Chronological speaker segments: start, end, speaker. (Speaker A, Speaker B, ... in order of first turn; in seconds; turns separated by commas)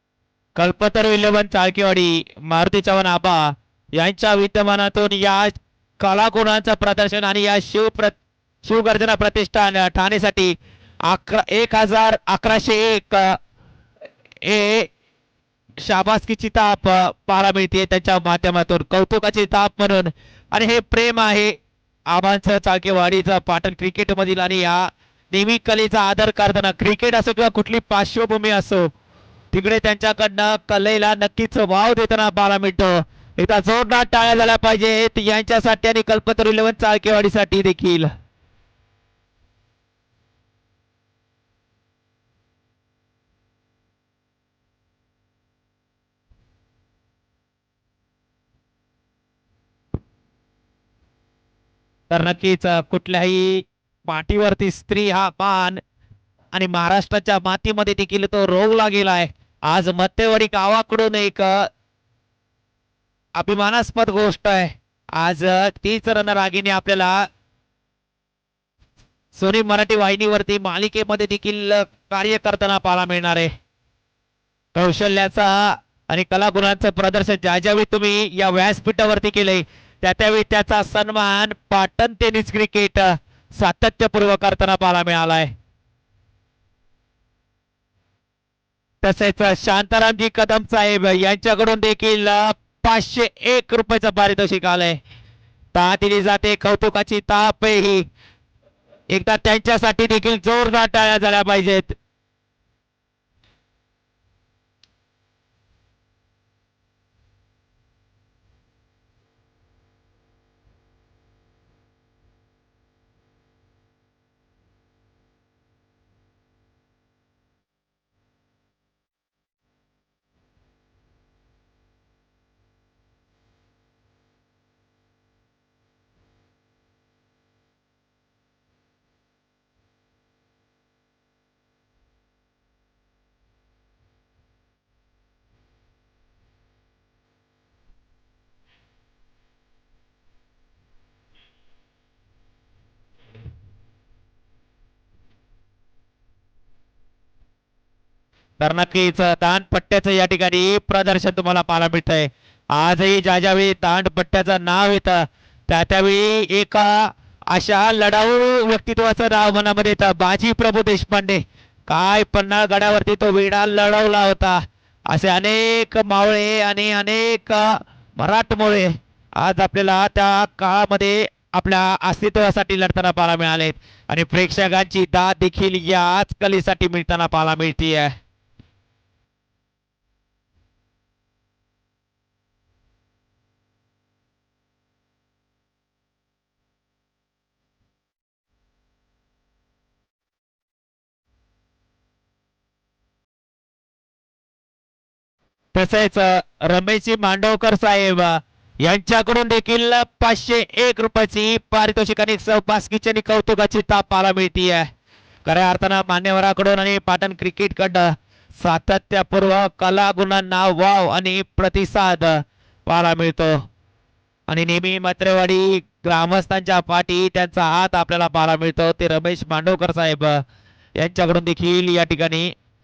Speaker A: 0.6-13.4, Speaker A: 14.4-14.9, Speaker A: 15.8-21.6, Speaker A: 22.1-28.9, Speaker A: 29.5-38.1, Speaker A: 52.1-55.8, Speaker A: 56.5-61.7, Speaker A: 63.4-67.2, Speaker A: 69.3-73.5, Speaker A: 74.8-85.5, Speaker A: 89.0-95.0, Speaker A: 95.7-98.0, Speaker A: 99.1-102.0, Speaker A: 148.6-178.2, Speaker A: 195.7-204.9, Speaker A: 205.4-213.5, Speaker A: 214.5-220.4, Speaker A: 221.0-222.5